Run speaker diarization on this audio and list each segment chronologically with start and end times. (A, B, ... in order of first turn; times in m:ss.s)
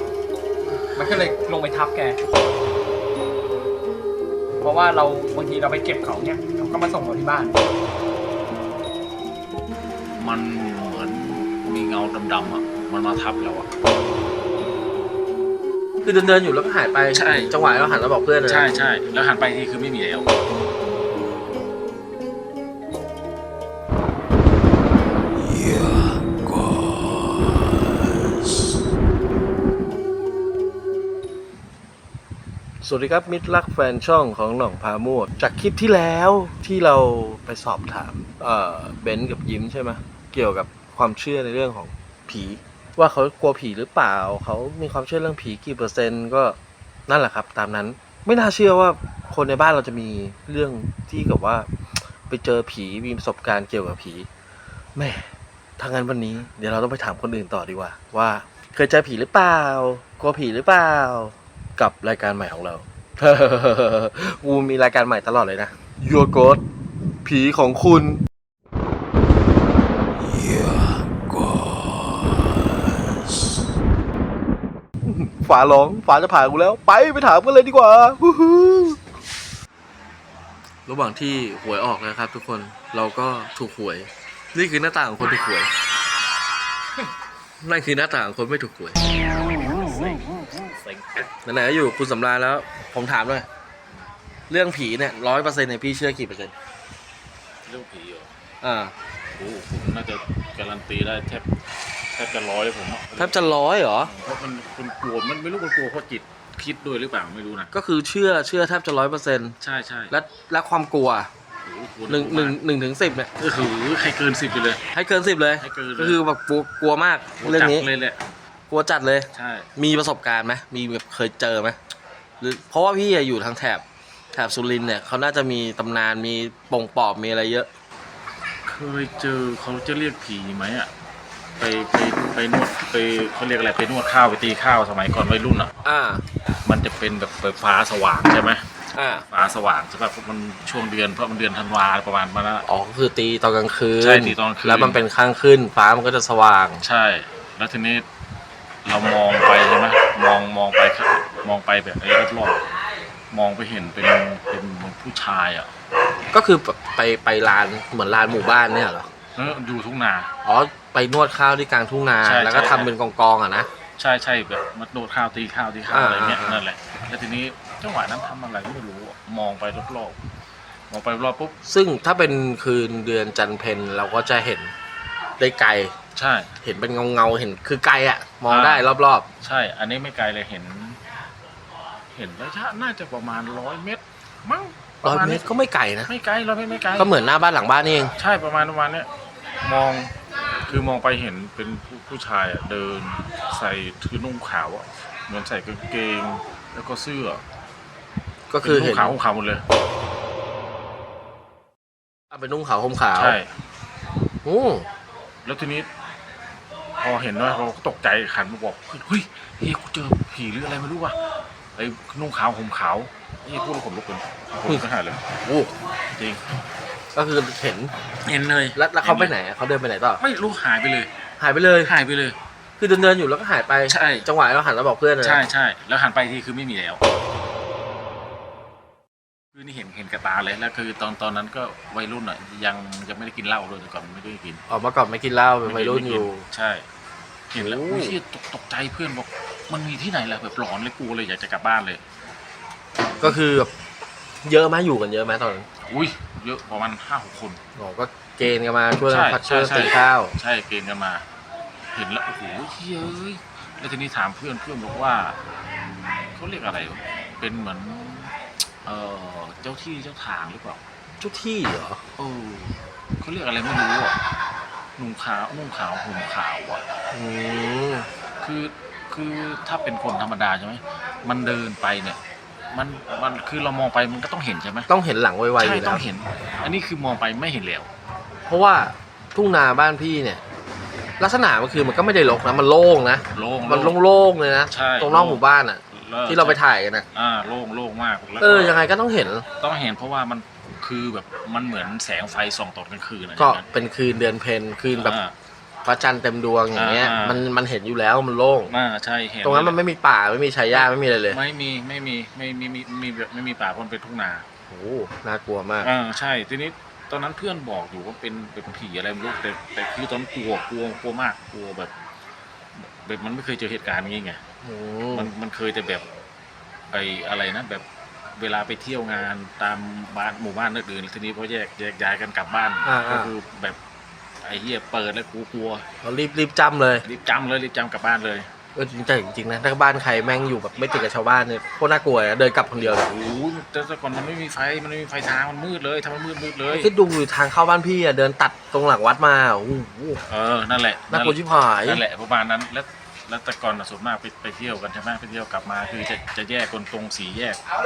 0:01.0-0:02.2 A
0:04.6-0:07.5 A
0:10.2-0:13.7 B
0:16.0-0:18.7 C
0:17.1-0:17.5 B
0:18.5-0:20.2 B
0:32.8-0:51.7 C
0:52.3-0:54.3 C
0:54.9-1:06.6 C
1:07.2-1:08.2 C
1:10.2-1:12.7 C
1:15.0-1:19.0 C
1:20.8-1:25.7 C
1:27.6-1:29.0 C
1:29.5-1:31.1 B
1:31.4-1:33.4 C
1:34.5-1:36.5 C
1:37.6-1:38.3 B
1:38.6-1:38.9 C
1:39.3-1:41.4 B
1:42.1-1:43.4 B
1:43.2-1:44.1 C
1:44.0-1:47.7 B
1:47.7-1:49.6 C
1:49.6-1:50.1 B
1:50.1-1:51.3 C
1:51.6-1:52.6 B
1:52.1-1:53.3 C
1:53.4-1:54.8 B
1:54.9-1:57.9 C
1:55.6-1:56.2 B
1:57.4-1:58.2 B
1:58.7-2:01.8 C
1:59.3-1:59.7 B
2:02.4-2:07.7 C
2:08.6-2:10.9 B
2:11.6-2:15.7 B
2:15.8-2:16.2 C
2:16.6-2:18.6 B
2:18.9-2:19.2 C
2:19.3-2:22.6 B
2:22.6-2:26.8 C
2:24.0-2:25.0 B
2:26.8-2:28.0 B
2:28.8-2:32.6 B
2:33.3-2:35.7 B
2:36.3-2:39.1 C
2:39.4-2:40.3 B
2:40.4-2:43.7 C
2:42.2-2:42.9 B
2:44.0-2:50.2 B
2:45.9-2:46.6 C
2:50.9-2:51.5 B
2:51.6-2:54.7 C
2:55.4-2:55.9 C
2:56.2-2:56.5 B
2:56.6-2:59.2 C
2:58.5-2:58.9 B
2:59.4-3:01.0 B
3:02.1-3:05.4 B
3:05.0-3:06.1 C
3:06.1-3:07.1 B
3:07.0-3:08.1 C
3:08.2-3:09.1 B
3:09.6-3:10.1 B
3:10.7-3:17.4 B
3:18.5-3:19.1 C
3:18.6-3:19.6 B
3:22.3-3:23.4 C
3:23.2-3:23.5 B
3:24.4-3:24.9 C
3:25.4-3:25.9 B
3:27.0-3:31.2 B
3:31.8-3:35.3 B
3:35.4-3:35.7 C
3:36.1-3:36.4 B
3:37.1-3:37.9 C
3:38.2-3:39.3 B
3:38.7-3:40.2 C
3:40.2-3:41.1 B
3:41.4-3:41.9 C
3:41.8-3:42.4 B
3:42.8-3:45.4 C
3:43.9-3:44.3 B
3:45.2-3:47.0 B
3:49.5-3:54.6 B
3:54.7-3:56.4 C
3:55.6-3:56.8 B
3:57.5-4:02.0 B
3:57.6-3:58.2 C
4:03.1-4:03.4 B
4:03.2-4:03.7 C
4:04.4-4:05.6 C
4:05.9-4:07.6 B
4:07.8-4:10.3 C
4:09.1-4:11.2 B
4:11.9-4:15.4 B
4:16.4-4:18.3 B
4:18.8-4:20.8 B
4:21.2-4:22.0 C
4:22.2-4:24.1 B
4:25.0-4:26.8 B
4:27.1-4:28.1 C
4:28.4-4:32.2 B
4:32.7-4:34.9 B
4:34.9-4:36.0 C
4:35.6-4:37.9 B
4:38.5-4:40.4 C
4:41.2-4:47.0 C
4:43.3-4:44.0 B
4:44.7-4:46.6 B
4:47.1-4:48.8 B
4:48.4-4:49.4 C
4:49.6-4:53.6 B
4:53.4-4:55.2 C
4:55.0-4:55.3 B
4:55.8-4:58.7 C
4:56.7-4:57.4 B
4:58.7-4:59.8 B
4:59.4-5:01.4 C
5:00.7-5:04.4 B
5:04.7-5:05.9 C
5:05.8-5:11.9 B
5:12.7-5:14.4 B
5:14.6-5:15.3 C
5:15.1-5:16.0 B
5:16.9-5:17.8 B
5:18.4-5:23.8 B
5:22.8-5:23.3 C
5:24.4-5:25.8 B
5:26.0-5:27.0 C
5:27.0-5:28.5 B
5:28.7-5:33.1 C
5:33.0-5:36.9 B
5:36.7-5:40.2 C
5:40.3-5:47.6 B
5:41.1-5:42.0 C